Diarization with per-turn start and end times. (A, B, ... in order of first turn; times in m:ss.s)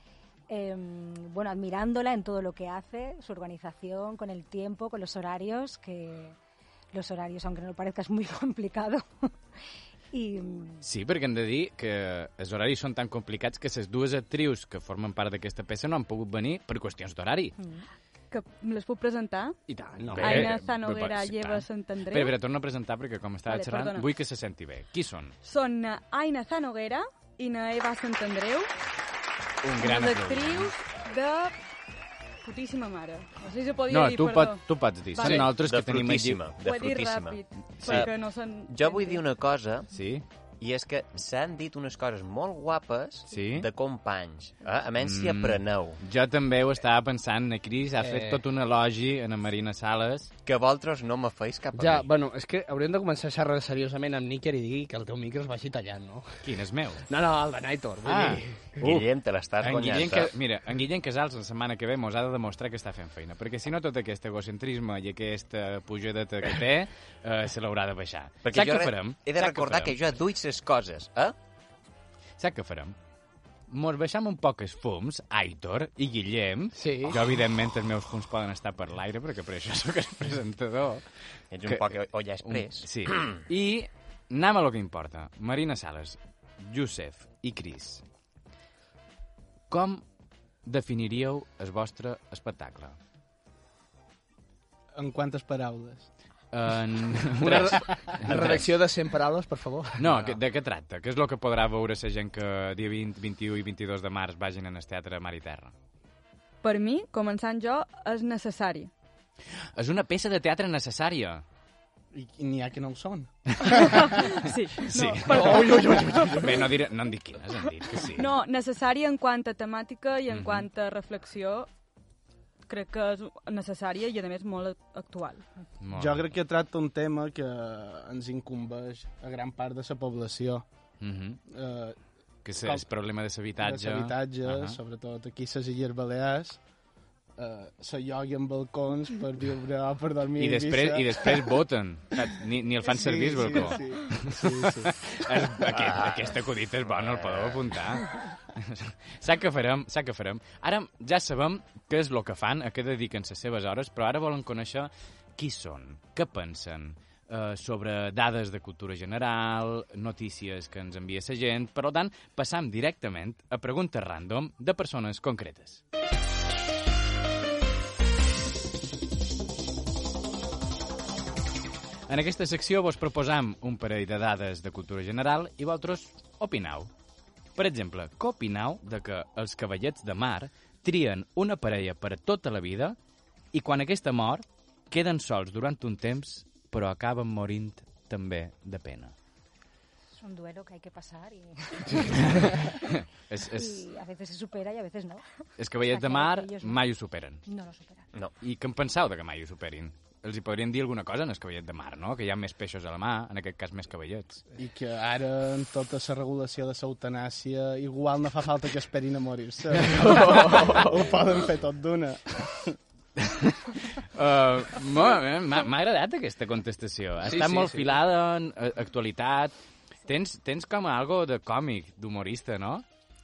0:00.5-0:06.4 A
0:06.9-0:09.3 A
0:10.1-0:10.8 A
0:10.8-0:17.6 B
0:17.6-0:17.8 A
0:18.3-0:19.6 C
0:19.7-0:20.5 D
0:20.1-0:25.3 B
0:20.2-0:22.4 C
0:23.5-0:24.1 C
0:25.4-0:28.7 C
0:29.6-0:30.7 B
0:29.8-0:31.6 C
0:32.4-0:35.5 C
0:33.9-0:36.4 B
0:35.4-0:38.1 E
0:36.6-0:39.2 C
0:38.6-0:39.9 E
0:39.9-0:40.2 B
0:40.6-0:46.0 E
0:43.3-0:43.7 B
0:45.0-0:50.3 B
0:48.0-0:48.4 D
0:50.4-0:52.1 E
0:51.7-0:56.3 D
0:56.4-0:57.0 B
0:57.1-0:58.7 D
0:58.0-0:59.0 B
0:58.8-1:00.3 E
0:59.6-1:10.0 B
1:08.4-1:11.4 E
1:12.4-1:13.0 B
1:13.7-1:21.0 B
1:16.8-1:17.2 D
1:21.5-1:23.4 E
1:21.6-1:28.0 B
1:29.7-1:30.0 B
1:30.6-1:33.0 B
1:35.0-1:36.1 F
1:36.5-1:38.6 B
1:37.4-1:40.4 D
1:40.0-1:45.7 B
1:46.6-1:48.9 C
1:49.8-1:51.4 B
1:52.1-1:54.2 F
1:53.6-1:56.5 C
1:54.8-1:58.3 B
1:55.2-1:56.6 D
1:58.0-2:01.7 C
2:00.3-2:00.6 B
2:02.7-2:05.4 C
2:05.8-2:06.3 B
2:05.9-2:10.6 F
2:11.0-2:11.4 B
2:11.5-2:12.0 F
2:12.4-2:14.8 B
2:13.6-2:16.6 F
2:17.4-2:21.5 F
2:20.4-2:45.8 B
2:22.8-2:25.1 F
2:25.7-2:26.3 E
2:26.8-2:27.8 E
2:52.1-2:56.9 B
2:57.6-3:03.0 B
3:03.5-3:09.1 B
3:10.2-3:12.9 A
3:12.0-3:13.8 B
3:13.5-3:15.2 A
3:15.6-3:17.4 B
3:15.8-3:16.8 A
3:17.4-3:18.1 A
3:18.4-3:24.4 B
3:24.6-3:32.8 F
3:29.9-3:30.8 D
3:33.2-3:42.8 B
3:37.2-3:37.9 D